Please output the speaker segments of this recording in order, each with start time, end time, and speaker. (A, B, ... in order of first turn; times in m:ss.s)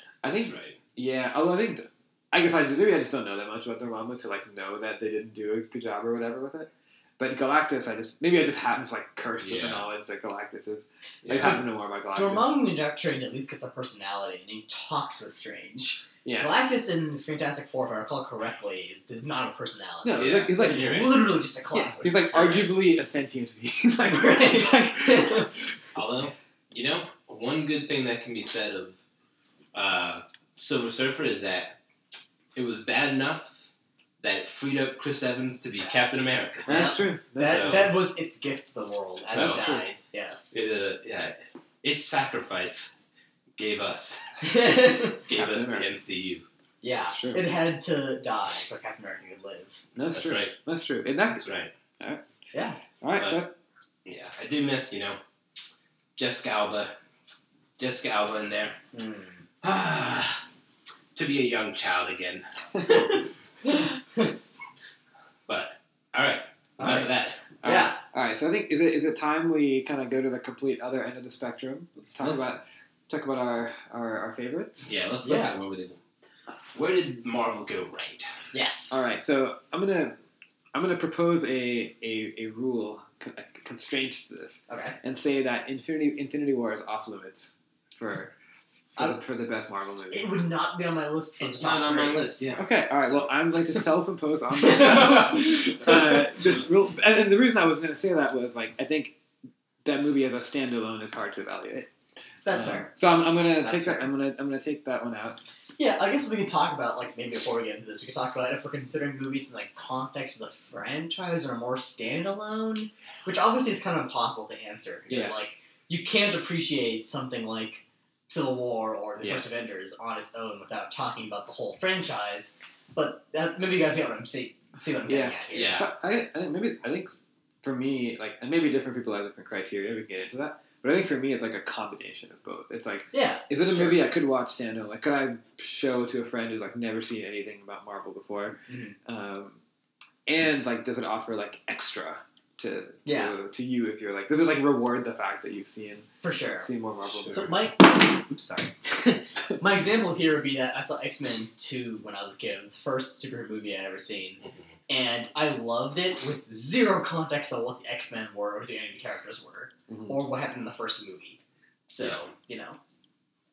0:00.2-0:12.5 A
0:00.3-0:00.8 B
0:09.4-0:09.9 B
0:11.2-0:11.6 B
0:12.1-0:22.3 C
0:16.2-0:16.5 A
0:20.0-0:25.6 A
0:20.2-0:21.2 B
0:22.3-0:22.8 B
0:24.1-0:25.5 C
0:26.0-0:29.0 B
0:29.7-0:31.8 B
0:32.6-0:33.7 B
0:34.2-0:37.9 B
0:36.7-0:37.9 A
0:36.7-0:40.6 C
0:39.3-0:39.9 B
0:39.3-0:39.9 A
0:40.5-0:43.0 B
0:43.6-0:44.5 B
0:44.4-0:45.2 C
0:45.2-0:46.5 B
0:45.3-0:45.9 A
0:46.8-0:49.8 C
0:47.1-0:47.4 A
0:50.0-0:51.5 A
0:50.1-0:50.6 B
0:51.3-0:51.7 B
0:52.5-0:52.8 C
0:53.0-0:53.5 A
0:53.2-0:53.4 B
0:54.0-0:55.2 B
0:56.2-0:57.0 B
0:57.8-0:58.8 B
0:58.9-0:59.4 C
0:59.6-1:00.4 B
1:01.2-1:02.4 B
1:02.9-1:04.3 C
1:05.5-1:07.5 B
1:07.6-1:15.0 A
1:07.6-1:08.0 C
1:12.1-1:12.5 B
1:14.9-1:16.0 B
1:15.2-1:15.6 C
1:16.7-1:18.4 B
1:18.5-1:19.2 C
1:18.9-1:20.2 A
1:20.7-1:28.3 A
1:24.7-1:25.0 C
1:29.0-1:30.4 A
1:30.1-1:32.4 C
1:31.4-1:33.3 B
1:32.6-1:39.2 A
1:34.6-1:35.4 C
1:39.8-1:41.9 A
1:42.4-1:42.9 C
1:42.6-1:45.4 A
1:43.6-1:44.1 C
1:45.8-2:05.8 C
1:55.1-1:55.4 A
1:59.2-1:59.5 A
2:05.1-2:19.6 A
2:05.5-2:05.9 B
2:13.1-2:14.0 C
2:18.7-2:19.0 C
2:20.3-2:26.1 A
2:23.1-2:23.3 C
2:26.2-2:26.7 C
2:26.6-2:27.6 A
2:27.0-2:27.3 B
2:27.3-2:42.8 C
2:39.9-2:40.2 A
2:42.0-2:42.3 B